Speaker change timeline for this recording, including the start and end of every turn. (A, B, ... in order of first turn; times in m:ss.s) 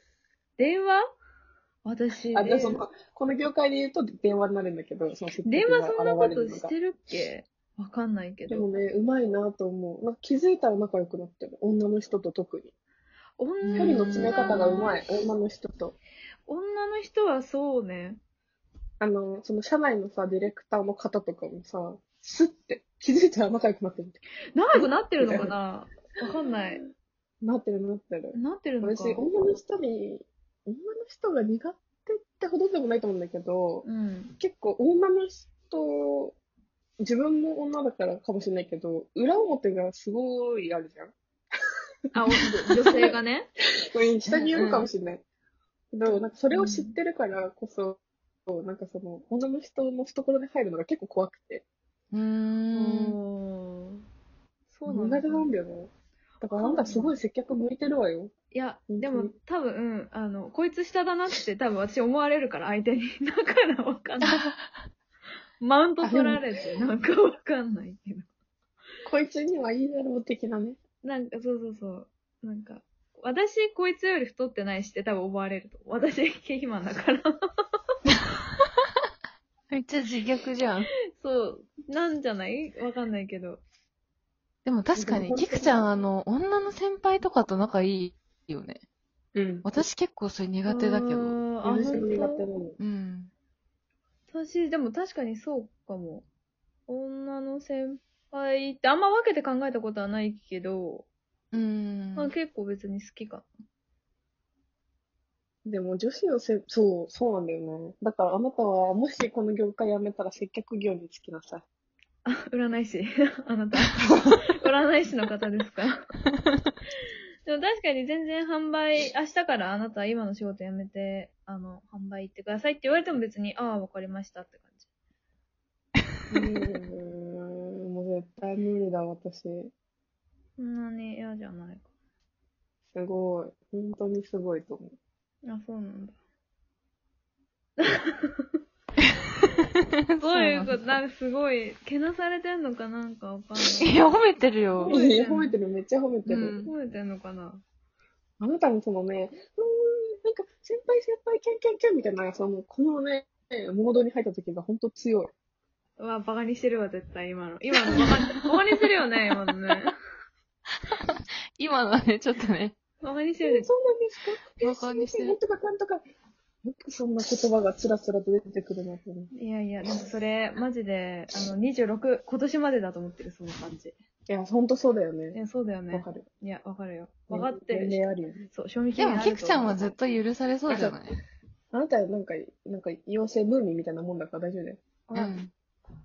0:00.6-0:01.0 A
0:01.8-0:02.8 A
0:02.3-0:06.7 B
0:05.5-0:08.7 A
0:08.5-0:12.7 B
0:13.4-0:14.9 A
0:13.6-0:14.6 C
0:13.8-0:16.0 B
0:16.5-0:18.2 A
0:19.0-0:24.2 B
0:24.6-0:26.8 A
0:24.8-0:25.5 B
0:27.4-0:33.9 B
0:28.4-0:29.2 A
0:33.8-0:34.4 A
0:34.4-0:36.4 B
0:37.0-0:41.1 B
0:42.1-0:43.5 A
0:42.4-0:43.2 B
0:43.9-0:45.2 B
0:44.3-0:44.9 C
0:45.9-0:51.6 B
0:46.5-0:47.0 A
0:52.1-0:53.2 C
0:52.7-0:54.0 A
0:54.7-0:55.5 A
0:54.9-0:58.3 B
0:56.5-0:57.1 A
0:58.5-1:04.4 A
0:58.9-0:59.3 B
1:04.2-1:04.6 C
1:05.6-1:08.3 A
1:06.0-1:06.4 B
1:09.1-1:10.8 B
1:11.0-1:17.3 A
1:19.7-1:20.9 C
1:21.2-1:23.6 A
1:24.6-1:28.8 C
1:25.0-1:25.9 B
1:29.4-1:29.7 B
1:29.6-1:31.4 C
1:30.7-1:32.4 A
1:31.6-1:32.8 B
1:32.8-1:33.3 C
1:34.3-1:36.3 A
1:36.9-1:41.1 A
1:41.5-1:42.3 C
1:42.2-1:43.5 A
1:45.6-1:51.6 B
1:52.2-1:56.0 A
1:57.4-2:04.9 A
2:06.3-2:09.7 B
2:10.6-2:11.9 A
2:12.9-2:15.0 B
2:15.4-2:16.2 A
2:17.8-2:18.6 A
2:20.1-2:21.0 C
2:20.2-2:23.9 A
2:23.8-2:25.0 C
2:24.8-2:25.6 A
2:24.8-2:26.6 B
2:26.3-2:26.7 C
2:26.6-2:27.6 A
2:28.4-2:35.3 B
2:36.0-2:39.9 A
2:37.9-2:38.4 C
2:40.9-2:42.7 C
2:43.0-2:43.7 A
2:43.4-2:46.0 B
2:44.6-2:45.4 C
2:46.6-2:49.3 B
2:49.3-2:54.0 A
2:54.3-2:55.4 B
2:55.3-3:00.0 A
2:55.9-2:56.3 B
2:57.3-2:58.5 B
2:59.0-3:01.2 C
3:00.7-3:01.0 B
3:01.7-3:04.8 B
3:05.1-3:05.4 A
3:05.1-3:05.5 C